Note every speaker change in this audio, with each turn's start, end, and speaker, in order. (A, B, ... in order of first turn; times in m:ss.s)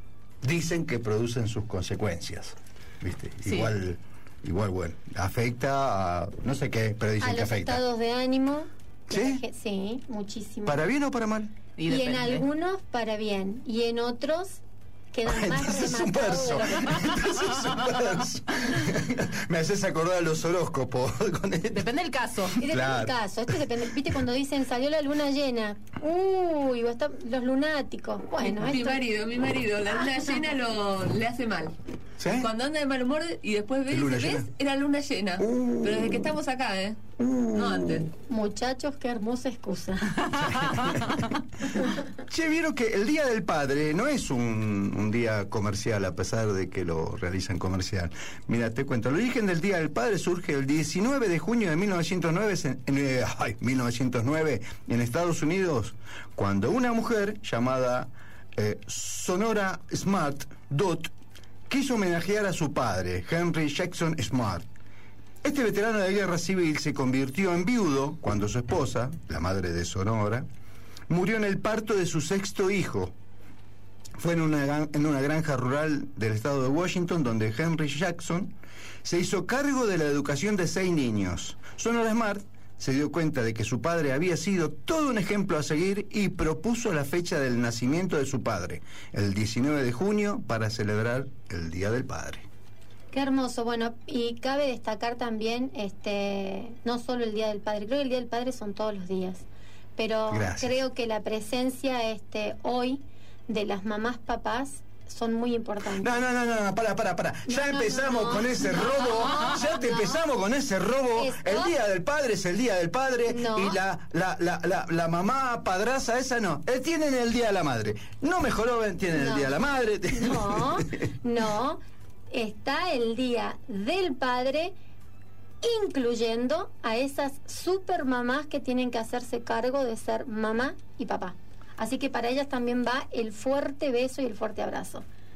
0:00.4-0:07.8 A
0:03.5-0:03.7 B
0:07.2-0:10.9 C
0:09.1-0:09.4 A
0:10.7-0:11.5 A
0:11.8-0:12.5 B
0:11.9-0:16.6 C
0:15.2-0:21.9 A
0:16.5-0:18.1 B
0:21.7-0:22.6 B
0:22.6-0:29.0 C
0:22.7-0:23.2 A
0:28.4-0:37.0 D
0:32.2-0:32.5 A
0:33.9-0:34.5 A
0:35.4-0:36.3 A
0:37.2-0:38.1 A
0:37.5-0:38.1 D
0:38.3-0:40.2 C
0:40.3-0:41.0 B
0:40.5-0:41.2 A
0:42.3-1:01.1 A
1:01.7-1:04.6 A
1:05.4-1:10.5 A
1:11.1-1:13.1 A
1:14.2-1:18.5 A
1:19.0-1:32.4 A
1:33.1-1:39.4 C
1:40.0-1:46.2 C
1:40.3-1:40.8 A
1:46.0-2:00.9 A
1:47.5-1:50.2 C
1:51.2-1:51.8 C
1:53.3-1:53.8 C
1:59.1-1:59.6 C
2:00.1-2:04.7 C
2:05.6-2:15.0 C